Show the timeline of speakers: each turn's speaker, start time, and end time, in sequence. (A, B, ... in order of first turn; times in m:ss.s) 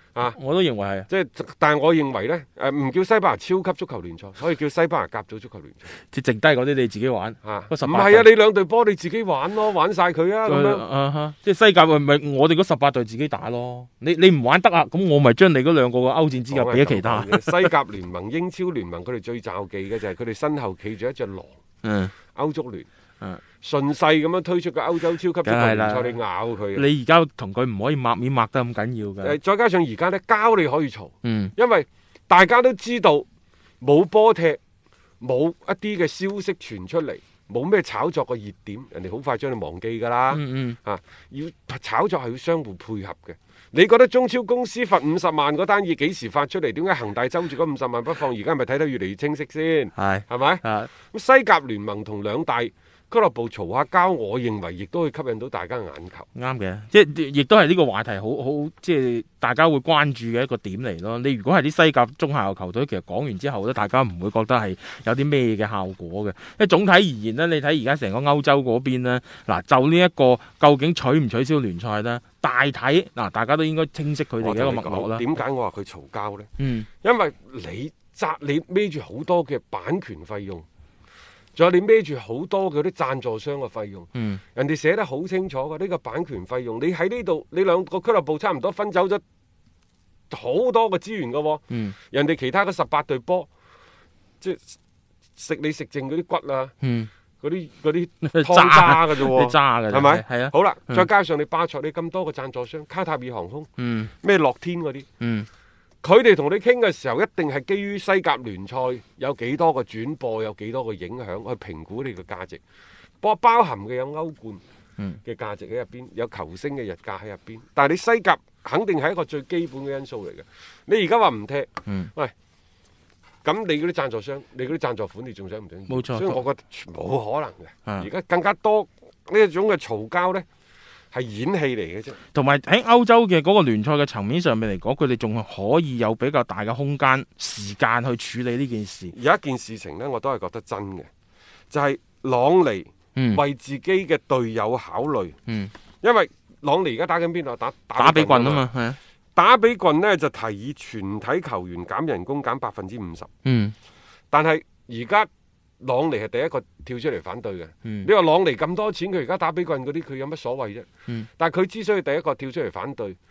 0:00.2-0:01.1 A
0:01.1-0:05.9 B
0:06.1-0:08.3 A
0:07.4-0:10.8 B
0:10.4-0:17.7 A
0:16.5-0:21.6 B
0:21.8-0:22.1 A
0:22.3-0:22.9 B
0:23.6-0:26.9 B
0:25.4-0:26.2 A
0:26.8-0:29.4 A
0:29.2-0:33.2 B
0:31.2-0:31.5 A
0:33.8-0:34.6 B
0:35.2-0:56.2 B
0:40.3-0:40.8 A
0:50.0-0:50.9 A
0:56.4-1:15.2 A
1:14.4-1:16.5 B
1:16.6-1:16.9 A
1:17.0-1:20.6 B
1:21.6-1:29.2 B
1:24.1-1:24.4 A
1:30.3-1:33.5 B
1:34.4-1:34.8 B
1:35.4-1:36.7 B
1:36.8-1:37.1 A
1:37.4-1:43.7 B
1:38.3-1:41.0 A
1:43.8-1:44.1 A
1:44.2-1:45.0 B
1:45.2-1:45.5 A
1:46.0-1:52.6 B
1:53.2-1:54.6 B
1:55.2-2:02.3 B
2:03.4-2:10.4 B
2:05.9-2:06.4 A
2:11.1-2:12.2 B
2:12.3-2:19.1 A
2:19.1-2:21.1 B
2:21.7-2:25.4 B
2:23.2-2:23.4 A
2:26.0-2:28.6 B
2:28.0-2:29.0 A
2:29.4-2:33.3 B
2:33.4-2:33.7 A
2:34.3-2:35.3 B
2:35.8-2:43.2 B